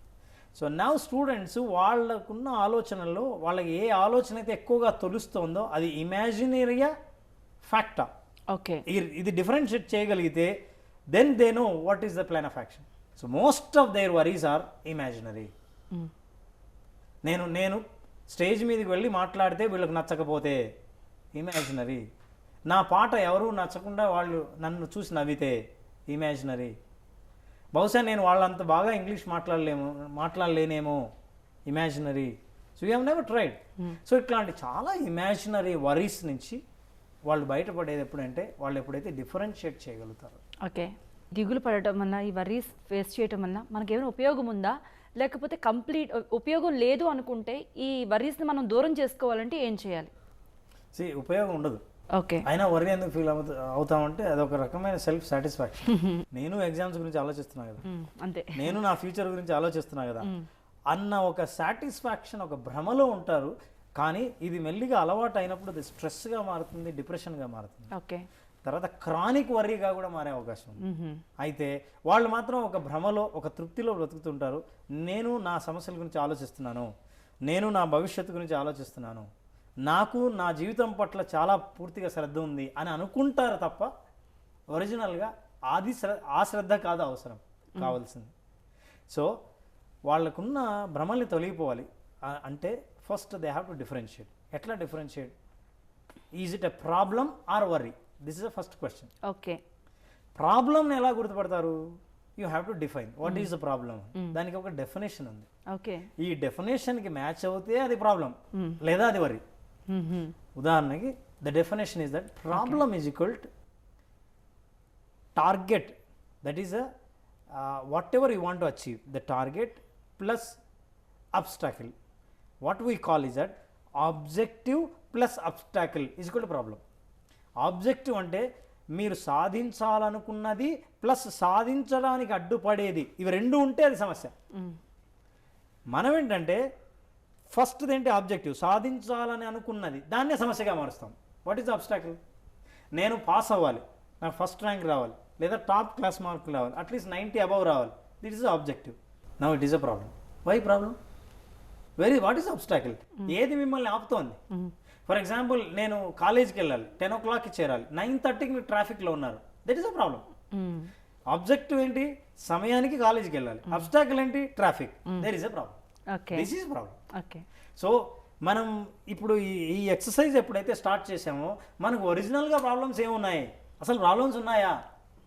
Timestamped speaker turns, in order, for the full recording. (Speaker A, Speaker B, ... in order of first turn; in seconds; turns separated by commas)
Speaker A: 0.5-6.9, Speaker A: 7.7-8.1, Speaker B: 8.5-8.8, Speaker A: 8.9-10.5, Speaker A: 11.1-15.5, Speaker A: 17.2-20.6, Speaker A: 21.3-22.0, Speaker A: 22.7-26.7, Speaker A: 27.7-31.0, Speaker A: 31.7-36.6, Speaker A: 37.3-40.4, Speaker B: 40.6-50.1, Speaker A: 50.9-51.8, Speaker B: 52.2-52.5, Speaker A: 52.4-57.8, Speaker B: 55.9-56.2, Speaker B: 57.8-58.8, Speaker A: 58.5-60.3, Speaker A: 60.9-67.9, Speaker B: 67.9-68.2, Speaker A: 68.6-70.8, Speaker B: 70.8-71.2, Speaker A: 71.4-76.9, Speaker A: 77.5-79.3, Speaker A: 79.8-83.9, Speaker A: 84.7-88.3, Speaker A: 90.0-95.3, Speaker A: 96.4-99.1, Speaker B: 99.2-99.6, Speaker A: 100.4-101.8, Speaker A: 102.4-105.5, Speaker B: 103.2-103.5, Speaker B: 105.7-106.0, Speaker A: 106.2-109.4, Speaker B: 109.9-110.3, Speaker A: 110.5-113.5, Speaker B: 112.5-112.8, Speaker A: 115.3-116.8, Speaker A: 117.5-120.5, Speaker A: 121.3-121.9, Speaker A: 122.6-126.8, Speaker A: 127.6-134.3, Speaker A: 135.9-136.6, Speaker A: 137.5-142.2, Speaker A: 142.9-150.9, Speaker A: 152.0-154.4, Speaker A: 155.1-160.2, Speaker B: 160.5-160.9, Speaker A: 161.3-165.8, Speaker B: 166.1-166.5, Speaker A: 166.3-167.0, Speaker B: 167.1-167.4, Speaker A: 167.8-174.8